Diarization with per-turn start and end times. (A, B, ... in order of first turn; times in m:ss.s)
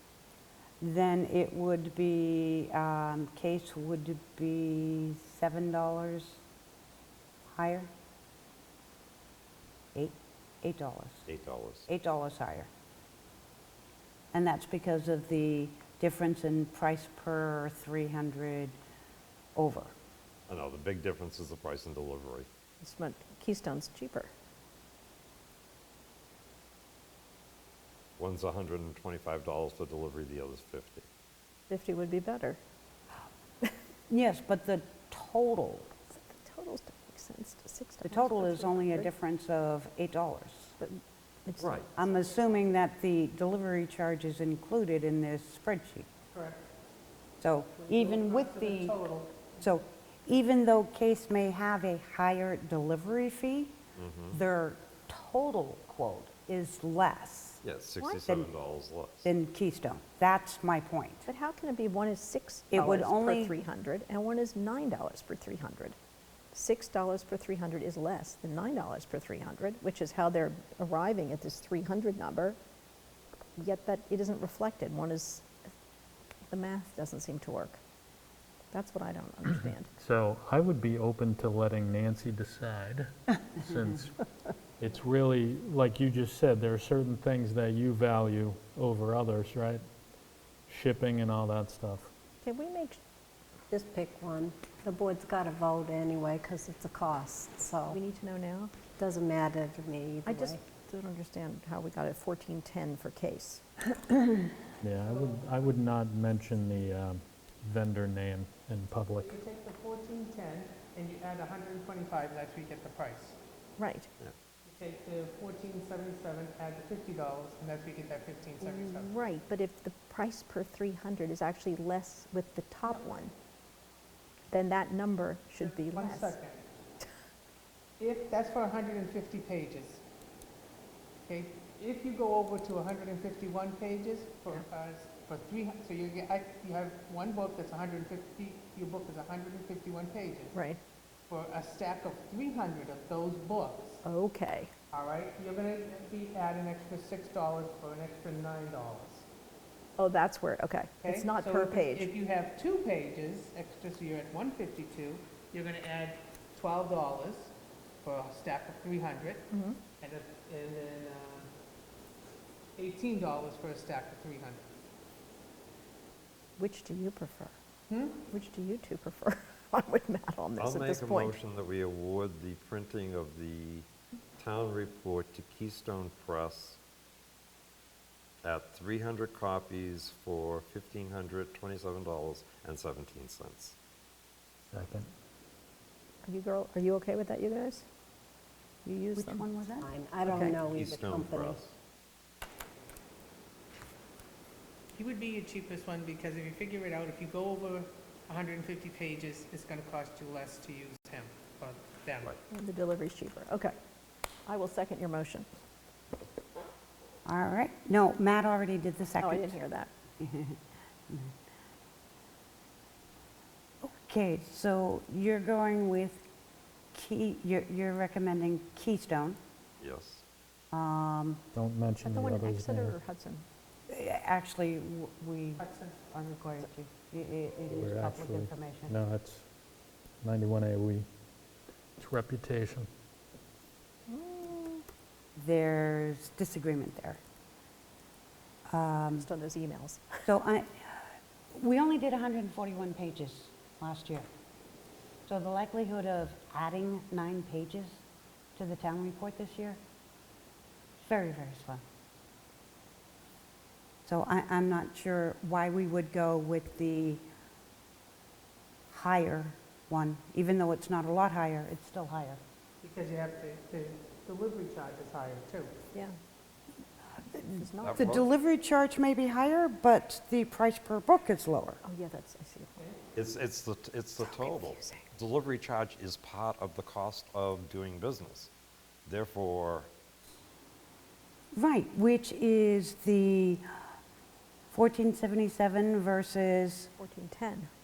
0:00.8-0:06.4 A
0:07.5-0:07.9 A
0:09.9-0:11.3 A
0:11.3-0:11.9 B
0:11.9-0:12.7 A
0:14.3-0:18.8 A
0:19.6-0:19.9 A
0:20.5-0:22.5 B
0:22.8-0:24.3 C
0:28.2-0:31.0 B
0:31.7-0:32.6 C
0:34.1-0:35.9 A
0:36.1-0:39.1 C
0:38.0-0:40.7 A
0:40.8-0:42.6 C
0:41.6-0:41.9 B
0:42.0-0:46.1 A
0:46.3-0:46.6 D
0:47.4-0:49.0 A
0:47.9-0:49.5 D
0:49.5-0:57.6 A
0:54.0-0:54.4 B
0:57.6-0:59.3 B
0:59.2-1:01.2 A
1:01.2-1:05.9 C
1:02.7-1:03.6 A
1:06.5-1:12.6 C
1:13.6-1:15.5 C
1:16.5-1:17.8 C
1:18.7-1:19.9 C
1:20.0-1:24.1 E
1:24.8-1:29.8 E
1:30.7-1:32.1 E
1:32.4-1:33.0 C
1:33.7-1:38.0 F
1:37.8-1:38.7 C
1:39.0-1:40.6 F
1:40.2-1:43.6 C
1:44.8-1:49.4 E
1:45.0-1:45.8 D
1:49.2-1:53.4 D
1:53.8-1:54.1 C
1:54.6-1:59.1 D
1:58.6-2:03.3 C
2:04.5-2:06.4 C
2:05.6-2:06.6 D
2:08.0-2:10.0 D
2:11.2-2:20.6 D
2:20.5-2:20.8 C
2:21.3-2:24.0 D
2:24.0-2:24.7 C
2:24.9-2:29.2 D
2:30.0-2:32.1 C
2:31.0-2:41.5 D
2:39.5-2:39.8 C
2:42.8-2:44.6 D
2:46.6-2:47.6 C
2:47.9-2:48.2 D
2:48.3-2:51.4 C
2:50.6-2:56.8 B
2:58.4-3:03.7 B
3:04.7-3:05.1 E
3:06.2-3:07.8 C
3:08.9-3:09.4 C
3:09.0-3:09.9 A
3:09.8-3:11.6 F
3:10.3-3:10.6 C
3:10.6-3:11.7 B
3:15.0-3:22.3 D
3:22.5-3:23.7 C
3:24.4-3:25.5 C
3:27.2-3:29.6 A
3:29.2-3:29.9 C
3:30.2-3:30.6 A
3:33.8-3:36.2 A
3:36.9-3:39.4 A
3:39.8-3:40.2 B
3:40.7-3:41.4 A
3:41.5-3:43.0 E
3:42.0-3:43.4 C
3:43.9-3:48.9 A
3:45.6-3:46.1 D
3:47.7-3:49.5 E
3:50.2-3:51.1 E
3:52.0-3:52.9 E
3:54.1-3:54.8 C
3:55.4-3:57.2 A
3:58.7-3:59.3 A
3:59.2-4:00.3 C
4:00.2-4:04.3 A
4:05.3-4:08.0 A
4:08.6-4:09.8 A
4:11.0-4:11.8 A
4:14.0-4:17.2 A
4:18.9-4:22.4 A
4:22.8-4:25.7 D
4:27.3-4:28.2 C
4:27.4-4:31.8 A
4:27.8-4:28.3 B
4:31.8-4:32.8 C
4:33.1-4:38.5 B
4:34.2-4:35.0 C
4:39.0-4:39.9 B
4:41.5-4:43.6 A
4:44.7-4:46.9 A
4:47.0-4:47.7 C